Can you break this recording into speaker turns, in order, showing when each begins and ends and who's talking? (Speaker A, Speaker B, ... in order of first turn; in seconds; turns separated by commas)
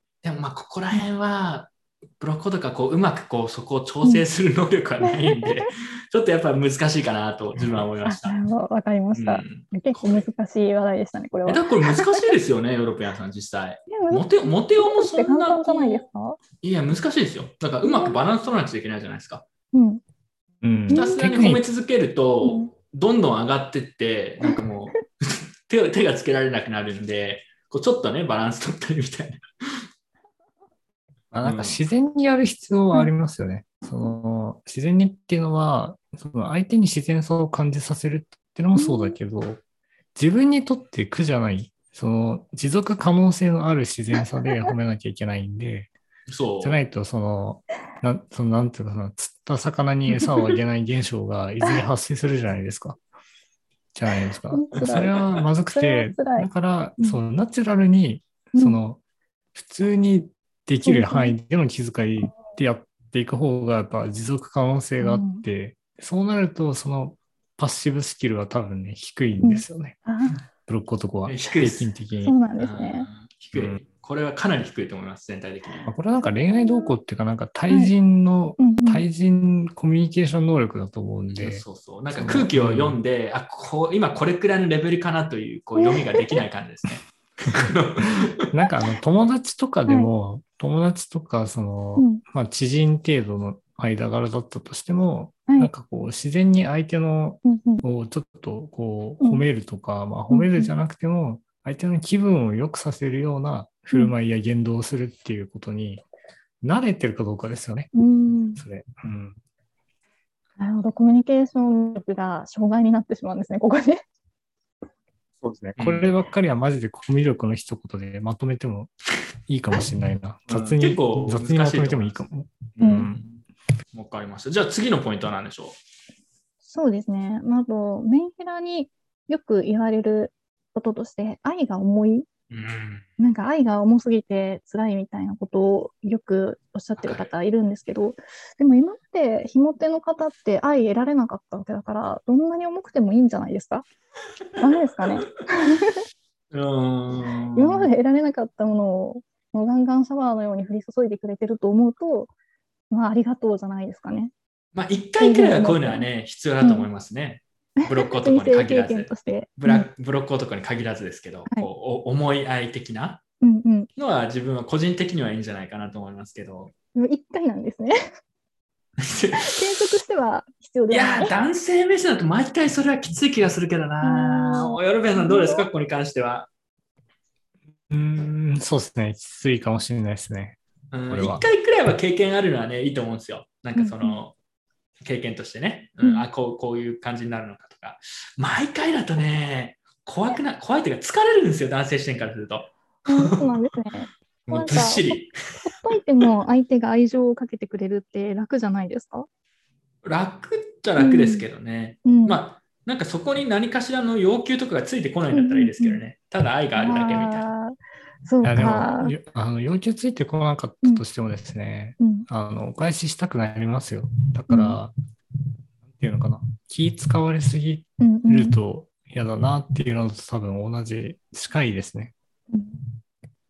Speaker A: 0.2-8.4, Speaker B: 5.0-5.7, Speaker B: 8.1-12.3, Speaker A: 9.1-10.3, Speaker A: 11.5-16.1, Speaker B: 13.9-16.4, Speaker A: 16.6-19.4, Speaker B: 17.8-18.2, Speaker B: 19.7-20.0, Speaker C: 20.6-21.6, Speaker B: 20.9-21.2, Speaker A: 20.9-29.4, Speaker B: 22.4-22.7, Speaker C: 31.3-39.6, Speaker A: 31.4-31.8, Speaker B: 38.8-39.2, Speaker C: 40.2-45.9, Speaker A: 46.3-46.8, Speaker C: 46.6-53.0, Speaker C: 53.9-59.0, Speaker B: 54.5-56.5, Speaker B: 58.5-58.8, Speaker C: 59.5-70.0, Speaker B: 60.9-61.4, Speaker B: 65.0-65.4, Speaker B: 69.4-70.4, Speaker C: 70.6-72.4, Speaker A: 71.3-71.9, Speaker B: 72.2-73.1, Speaker A: 72.6-75.9, Speaker C: 75.9-83.0, Speaker B: 76.2-76.9, Speaker B: 78.6-79.0, Speaker A: 81.3-88.5, Speaker B: 85.8-86.4, Speaker C: 87.5-106.0, Speaker B: 92.0-92.2, Speaker B: 97.5-97.8, Speaker B: 100.3-100.7, Speaker C: 106.6-107.9, Speaker B: 107.9-108.6, Speaker C: 108.6-109.4, Speaker B: 110.6-114.0, Speaker C: 115.4-118.9, Speaker A: 115.8-116.1, Speaker C: 119.5-123.2, Speaker A: 120.5-122.2, Speaker A: 122.8-123.3, Speaker B: 122.8-123.1, Speaker A: 123.9-125.8, Speaker B: 126.7-132.3, Speaker A: 132.5-133.1, Speaker B: 133.2-143.8, Speaker A: 137.0-137.3, Speaker B: 144.6-146.0, Speaker A: 146.5-147.9, Speaker B: 147.6-152.3, Speaker B: 152.9-154.3, Speaker A: 154.7-163.2, Speaker B: 155.2-156.1, Speaker B: 156.6-156.9, Speaker B: 157.8-159.9, Speaker B: 163.4-163.9, Speaker A: 164.0-166.7, Speaker B: 166.9-168.0, Speaker A: 169.0-169.8, Speaker B: 169.4-171.3, Speaker A: 170.9-176.5, Speaker B: 174.0-175.7, Speaker C: 177.9-180.6, Speaker A: 180.9-184.3, Speaker C: 181.1-181.4, Speaker B: 183.8-184.2, Speaker A: 185.0-193.6, Speaker B: 193.1-199.3, Speaker A: 194.5-195.3, Speaker A: 200.0-207.5, Speaker B: 201.0-201.4, Speaker B: 202.1-202.4, Speaker B: 205.3-206.0, Speaker B: 206.8-209.1, Speaker C: 208.4-214.9, Speaker B: 212.0-212.3, Speaker B: 214.5-214.8, Speaker C: 215.8-222.1, Speaker B: 218.0-218.6, Speaker B: 222.5-222.8